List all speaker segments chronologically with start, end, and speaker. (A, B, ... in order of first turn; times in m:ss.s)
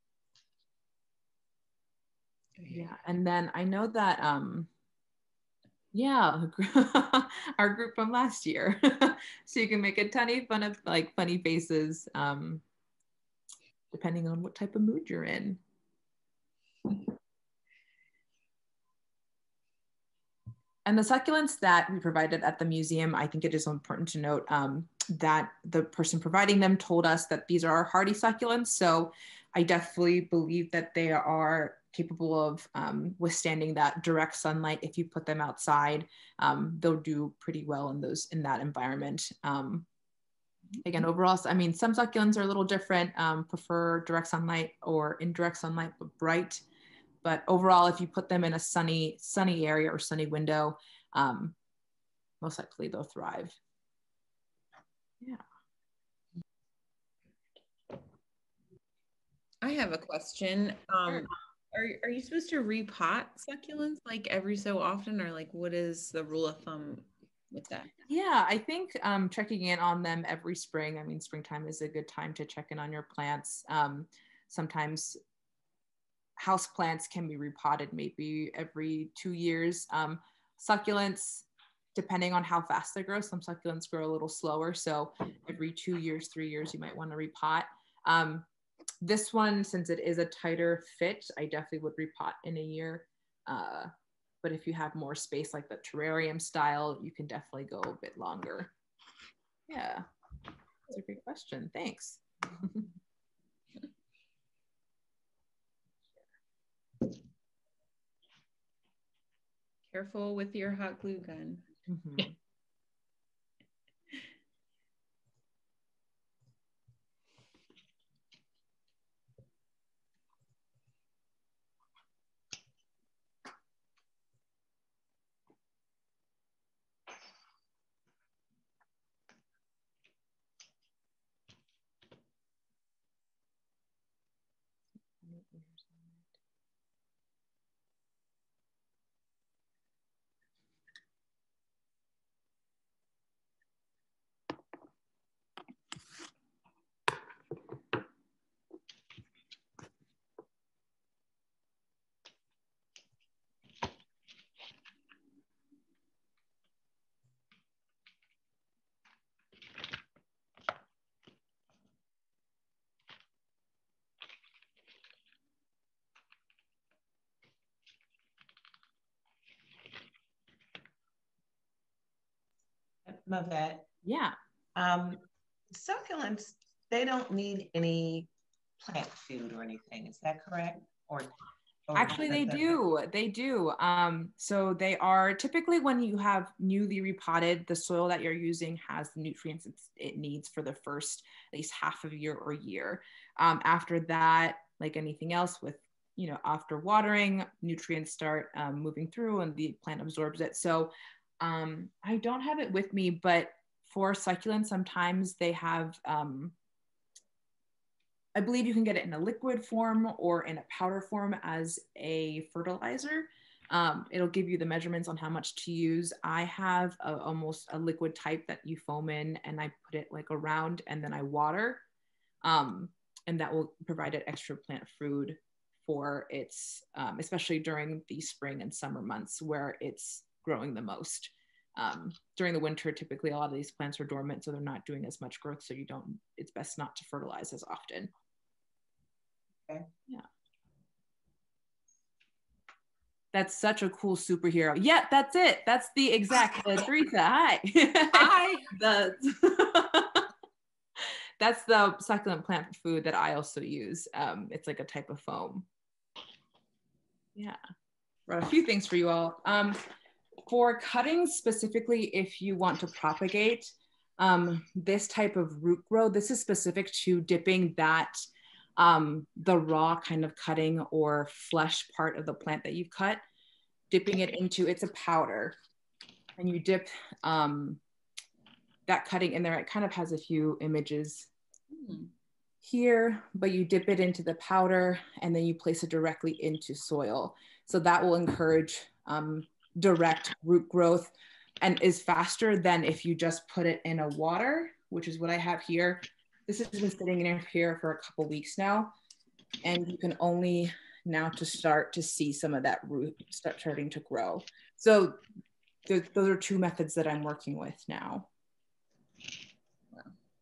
0:02.6-0:02.9 A
0:02.7-0:04.7 B
0:05.9-0:12.6 B
0:13.9-0:15.6 B
0:20.9-0:39.9 B
0:40.8-0:46.6 B
0:47.2-0:51.6 B
0:52.4-0:53.6 B
0:59.6-1:07.9 A
1:08.1-1:15.2 B
1:16.4-1:28.5 B
1:29.0-1:33.9 B
1:34.4-1:38.7 B
1:39.7-1:40.1 B
1:40.9-1:42.9 B
1:49.9-1:51.7 A
1:51.9-1:52.4 B
2:15.2-2:16.2 B
2:53.0-2:53.9 C
2:54.0-2:54.4 B
2:54.8-3:01.3 C
3:01.9-3:02.8 C
3:02.0-3:26.6 B
3:28.4-3:41.8 B
3:42.4-3:58.1 B
4:03.3-4:10.3 B
4:11.4-4:15.7 B
4:18.3-4:19.8 B
4:20.5-4:28.2 B
4:28.8-4:33.2 B
4:33.9-4:35.6 B
4:36.4-4:37.8 B
4:38.9-4:41.3 B
4:41.7-4:42.1 A
4:42.6-4:58.9 B
4:59.6-5:05.2 B
5:05.9-5:08.3 B